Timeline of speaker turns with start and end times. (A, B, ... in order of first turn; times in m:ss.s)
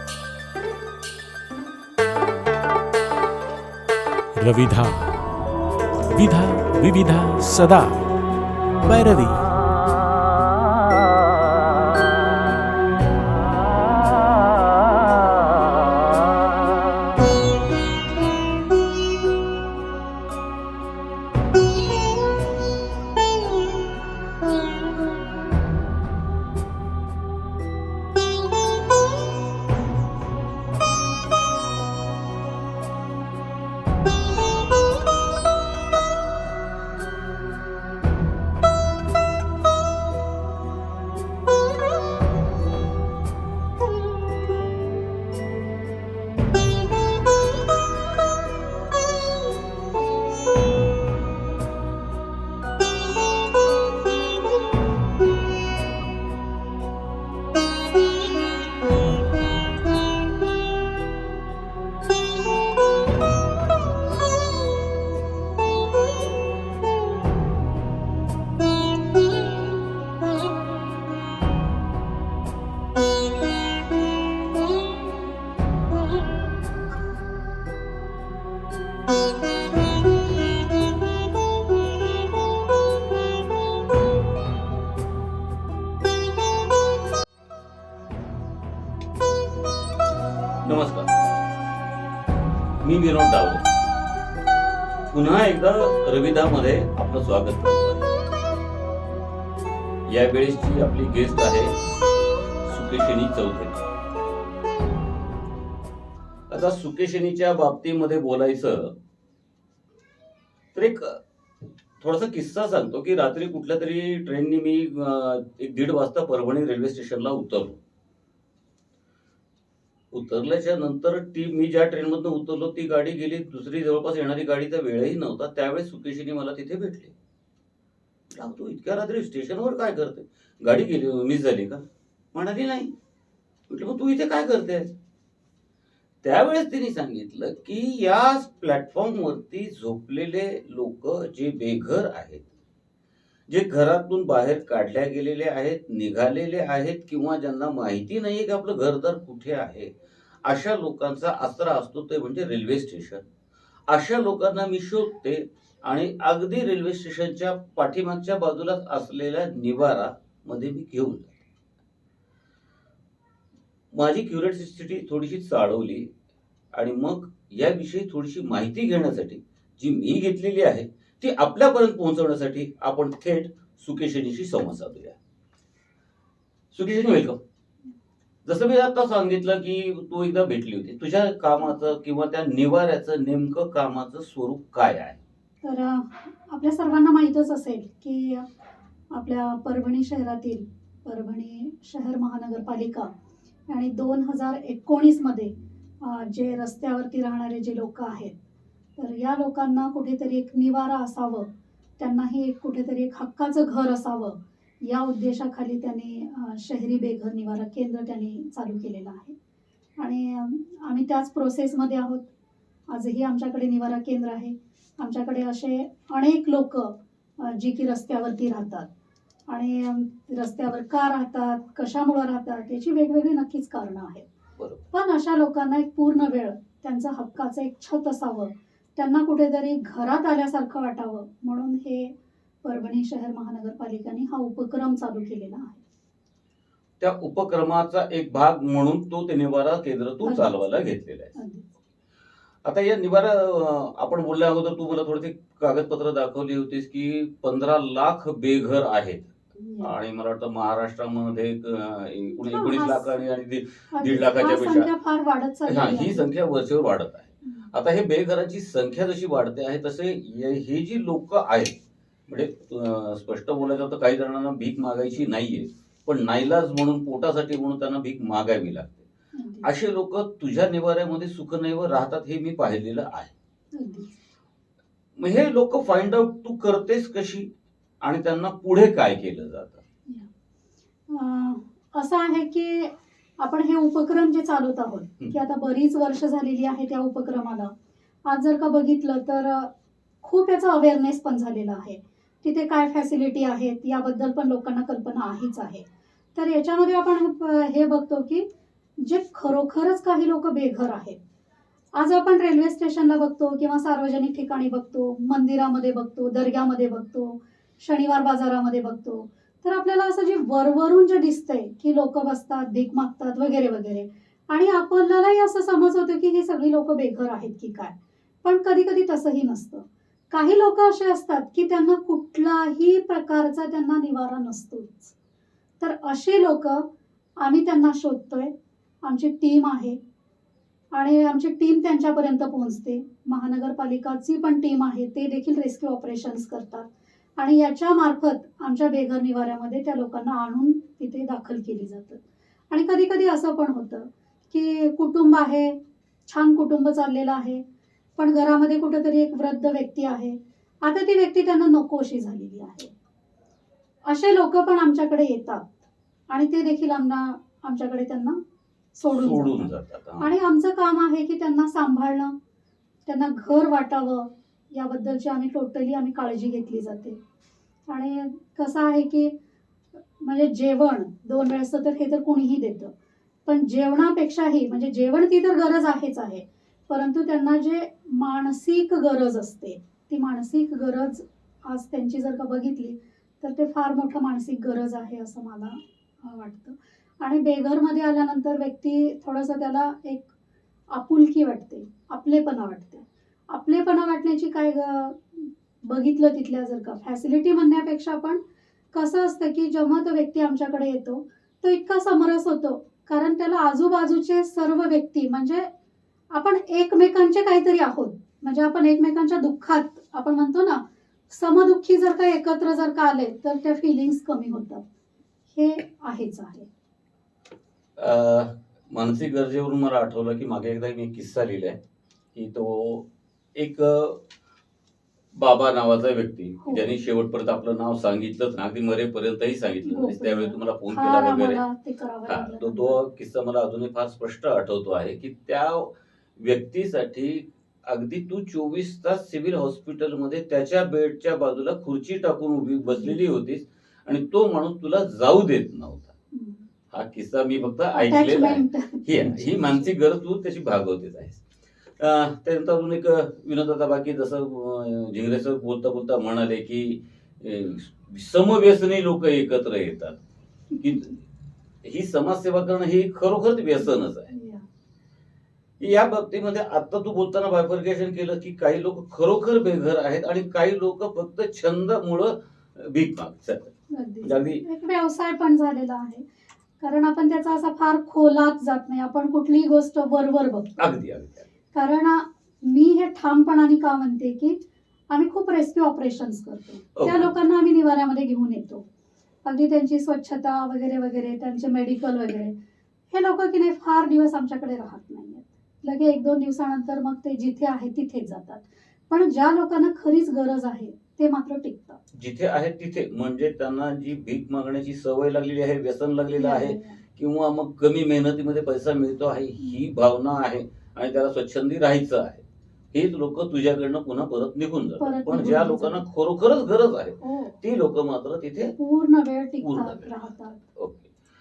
0:04.4-0:05.1 A
0:06.1-0:08.1 A
0:08.8-0:09.5 A
1:30.6-1:31.1 B
1:32.8-1:33.7 B
1:35.1-1:38.1 B
1:40.1-1:41.8 B
1:42.6-1:43.9 B
1:46.5-1:49.0 B
1:50.7-1:51.2 B
1:52.0-1:57.8 B
2:00.1-2:07.2 B
2:08.3-2:12.9 B
2:13.7-2:14.9 B
2:16.2-2:22.5 B
2:23.5-2:29.9 B
2:30.4-2:33.2 B
2:33.9-2:41.4 B
2:43.9-2:46.1 B
2:46.7-2:55.2 B
2:56.7-2:57.4 B
2:58.4-3:05.2 B
3:05.6-3:08.4 C
3:09.1-3:13.1 C
3:13.7-3:18.4 C
3:19.0-3:29.4 C
3:30.0-3:32.3 C
3:32.9-3:38.9 C
3:39.5-3:44.3 C
3:44.6-3:44.8 B
3:44.9-3:52.1 C
3:52.6-3:55.8 C
3:57.0-4:01.4 B
4:00.2-4:00.5 C
4:01.4-4:01.6 C
4:02.6-4:14.9 B
4:09.6-4:09.9 C
4:12.4-4:13.2 C
4:13.9-4:16.3 C
4:15.7-4:21.8 B
4:17.4-4:17.7 C
4:22.3-4:29.0 B
4:29.4-4:29.7 C
4:29.6-4:33.3 B
4:33.8-4:34.2 C
4:35.2-4:37.5 B
4:38.0-4:39.8 B
4:41.1-4:47.7 C
4:48.3-4:49.7 C
4:50.2-4:58.5 C
4:59.0-5:01.2 C
5:02.0-5:25.1 C
5:25.8-5:26.9 C
5:27.4-5:28.5 C
5:29.0-5:30.0 C
5:30.9-5:47.6 C
5:48.2-5:52.9 C
5:54.1-5:55.7 C
5:56.3-5:58.4 C
5:58.9-6:02.4 C
5:59.1-6:00.3 B
6:03.1-6:07.2 C
6:07.9-6:09.3 C
6:10.2-6:12.9 C
6:13.5-6:30.3 C
6:30.9-6:38.4 C
6:38.9-6:45.7 C
6:46.3-6:54.8 C
6:55.5-6:56.7 C
6:58.0-7:01.8 B
7:02.3-7:04.2 B
7:05.3-7:11.6 B
7:06.6-7:06.9 C
7:09.8-7:13.0 C
7:12.3-7:26.1 B
7:22.9-7:23.2 C
7:26.3-7:26.6 C
7:26.9-7:31.4 B
7:27.9-7:29.9 C
7:32.0-7:40.2 B
7:40.7-7:41.1 C
7:40.8-7:41.1 B
7:41.8-7:44.3 B
7:43.8-7:44.7 C
7:45.8-7:54.6 B
7:53.9-7:56.3 C
7:56.8-8:00.9 C
8:00.8-8:01.5 B
8:01.7-8:04.6 C
8:05.1-8:08.9 C
8:07.0-8:07.3 B
8:09.4-8:12.6 C
8:13.1-8:22.0 C
8:22.1-8:38.7 B
8:26.3-8:27.0 C
8:35.0-8:36.0 C
8:37.2-8:37.6 C
8:38.8-8:40.6 C
8:39.6-8:40.1 B
8:40.8-8:41.1 B